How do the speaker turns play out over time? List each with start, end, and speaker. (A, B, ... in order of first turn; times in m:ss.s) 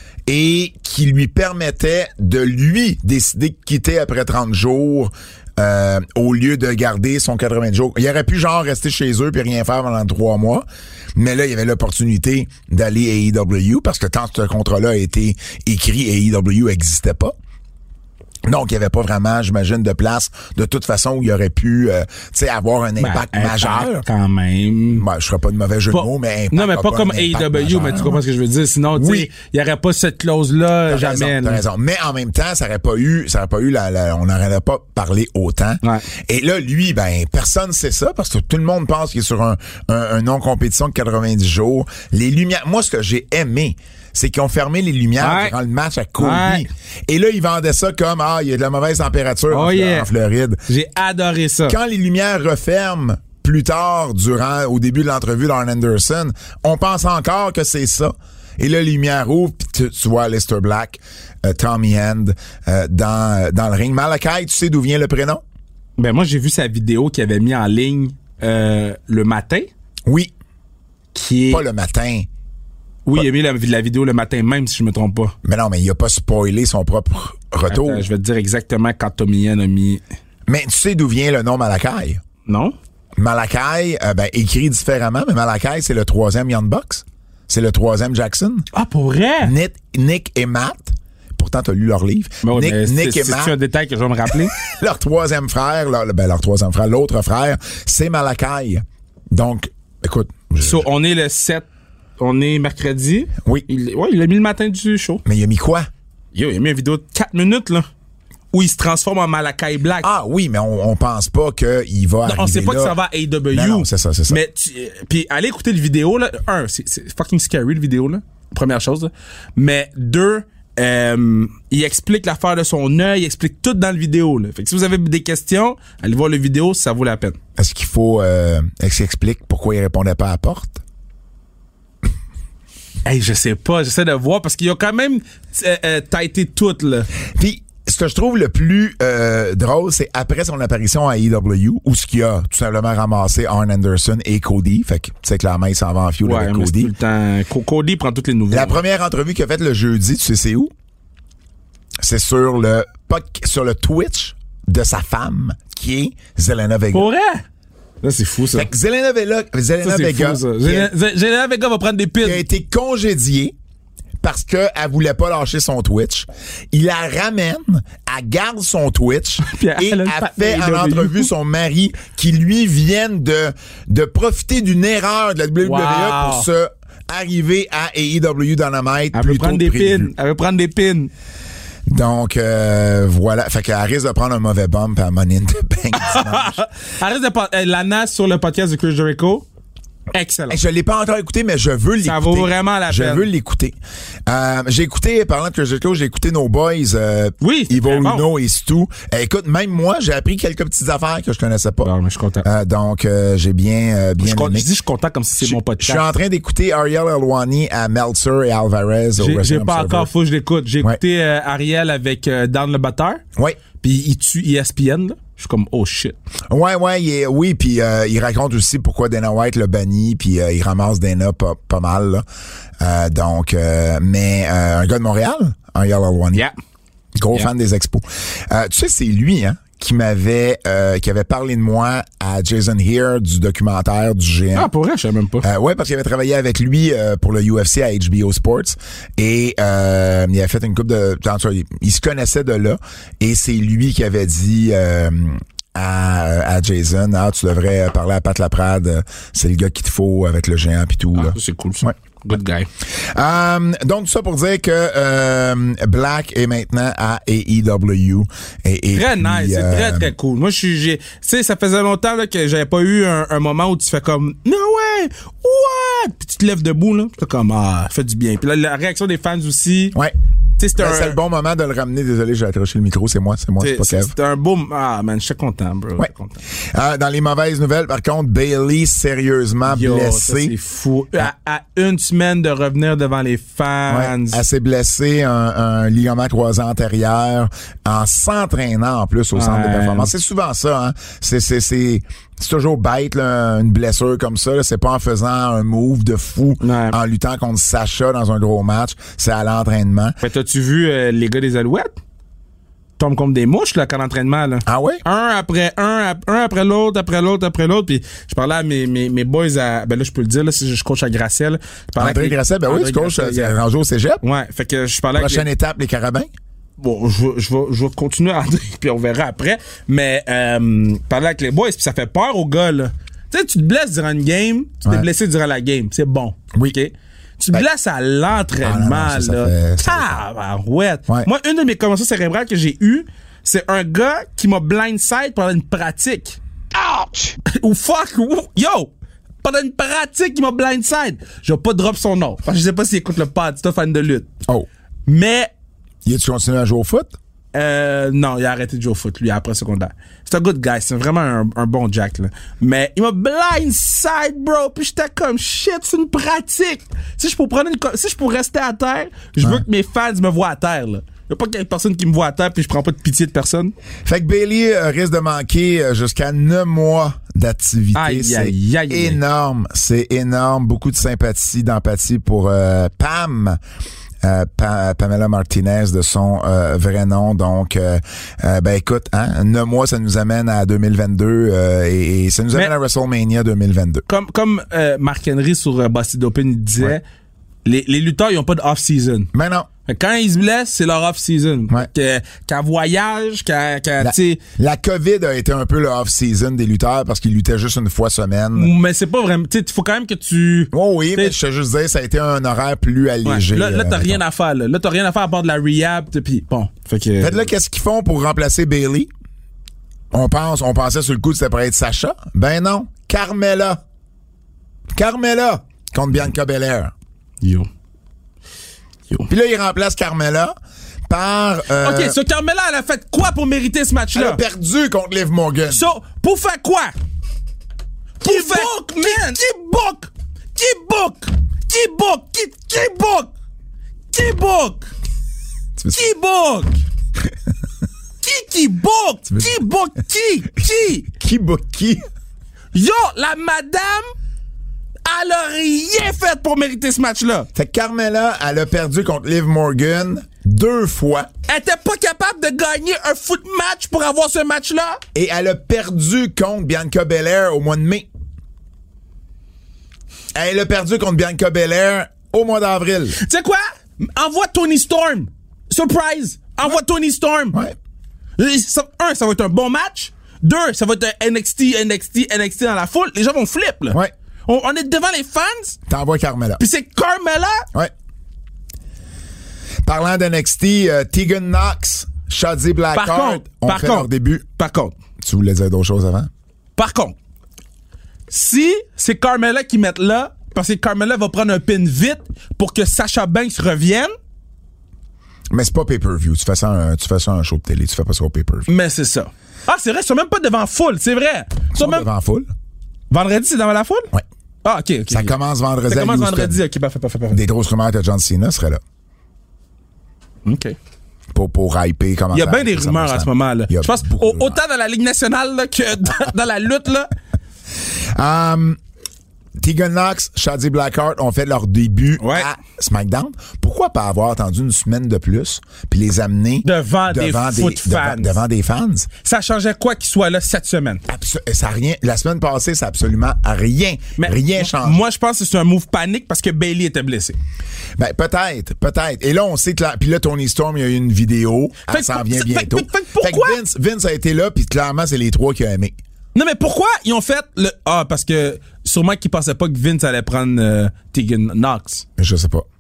0:00.3-0:17.3 A
0:18.5-0:24.1 A
0:23.0-0:25.0 B
0:24.9-0:28.2 A
0:25.9-0:31.6 B
0:28.9-0:29.3 A
0:30.9-0:50.6 A
0:35.8-0:36.1 B
0:45.2-0:45.6 B
0:46.2-0:46.7 B
0:49.5-0:50.1 B
0:50.7-0:51.8 B
0:51.7-1:05.4 A
1:06.0-1:09.7 B
1:10.1-1:10.3 A
1:11.1-1:11.6 B
1:11.5-1:12.3 A
1:13.0-1:15.4 B
1:15.4-1:18.1 A
1:17.7-1:20.0 B
1:20.5-1:22.2 A
1:22.5-1:22.8 B
1:23.2-1:28.7 A
1:28.7-1:29.5 B
1:29.4-1:33.5 A
1:32.4-1:34.5 B
1:34.6-1:40.9 A
1:40.6-1:41.7 B
1:42.2-1:45.2 B
1:45.2-1:45.9 A
1:46.3-1:47.9 B
1:48.5-1:50.1 B
1:50.0-1:53.0 A
1:52.3-2:07.4 B
1:53.5-1:54.4 A
2:07.6-2:10.8 A
2:13.0-2:17.1 B
2:17.3-2:26.9 A
2:26.2-2:28.8 B
2:28.5-2:30.7 A
2:32.0-2:37.1 A
2:36.9-2:37.4 B
2:38.0-2:38.7 B
2:38.5-2:40.9 A
2:39.8-2:42.4 B
2:42.2-2:43.5 A
2:44.2-3:00.1 A
2:49.4-2:51.3 B
2:55.6-2:56.5 B
2:59.1-3:01.1 B
3:01.9-3:06.6 A
3:06.0-3:09.5 B
3:10.1-3:10.6 B
3:10.5-3:13.8 A
3:12.0-3:13.3 B
3:14.3-3:21.9 A
3:17.4-3:18.3 B
3:21.8-3:22.4 B
3:22.4-3:24.7 A
3:24.2-3:26.0 B
3:25.4-3:30.1 A
3:29.2-3:33.2 B
3:33.8-3:36.2 B
3:36.5-3:42.2 A
3:42.8-3:46.4 A
3:47.2-3:54.7 A
3:54.5-3:55.5 B
3:55.4-4:11.9 A
4:11.2-4:12.7 B
4:13.0-4:20.1 A
4:18.9-4:30.0 B
4:30.6-4:31.2 B
4:30.8-4:34.1 A
4:33.6-4:36.4 B
4:36.7-4:40.5 A
4:39.6-4:44.4 B
4:43.9-5:00.2 A
4:49.4-4:50.1 B
4:56.6-4:57.0 B
5:00.2-5:02.0 B
5:03.0-5:13.6 B
5:04.7-5:05.0 A
5:12.0-5:14.2 A
5:14.2-5:15.5 B
5:15.2-5:16.3 A
5:16.8-5:36.4 B
5:28.6-5:30.2 A
5:36.8-5:37.3 A
5:37.4-5:38.9 B
5:39.4-5:44.3 B
5:45.1-5:45.5 B
5:46.0-5:47.1 A
5:47.5-6:03.7 B
6:04.0-6:13.6 A
6:08.0-6:09.2 B
6:14.2-6:24.0 A
6:24.1-6:27.0 B
6:27.6-6:29.3 B
6:29.3-6:29.7 A
6:29.9-6:34.4 B
6:34.0-6:38.7 A
6:38.6-6:41.4 B
6:40.7-6:44.2 A
6:43.2-6:47.4 B
6:47.2-6:49.1 A
6:50.1-6:53.8 A
6:54.9-6:56.9 A
6:57.4-6:57.7 B
6:59.3-7:00.6 A
7:01.1-7:02.2 A
7:01.8-7:04.4 B
7:04.1-7:05.9 A
7:05.7-7:06.9 B
7:08.2-7:13.3 B
7:08.2-7:08.7 A
7:14.1-7:14.9 B
7:15.8-7:16.0 A
7:15.9-7:16.8 B
7:18.2-7:21.1 B
7:21.0-7:22.0 A
7:22.7-7:24.1 B
7:25.0-7:27.5 B
7:27.6-7:31.3 A
7:31.5-7:35.0 B
7:35.1-7:38.1 A
7:40.3-7:43.2 A
7:43.2-7:47.6 B
7:48.4-7:55.8 B
7:55.9-7:56.6 A
7:56.6-7:57.7 B
7:59.8-8:04.4 A
8:02.9-8:05.0 B
8:05.2-8:06.3 A
8:06.8-8:07.2 B
8:08.3-8:14.1 B
8:15.5-8:18.7 A
8:18.7-8:22.1 B
8:21.7-8:22.5 A
8:23.1-8:24.1 B
8:24.6-8:25.3 B
8:25.1-8:26.6 A
8:25.9-8:27.4 B
8:27.3-8:28.8 A
8:30.4-8:30.8 B
8:31.3-8:34.6 A
8:32.3-8:37.1 B
8:38.1-8:38.8 A
8:39.6-8:49.1 A
8:42.2-8:42.5 B
8:46.6-8:48.4 B
8:49.2-8:51.0 B
8:51.1-8:55.0 A
8:54.2-8:57.4 B
8:58.0-9:06.0 A
9:01.9-9:03.6 B
9:06.3-9:12.0 B
9:12.2-9:12.6 A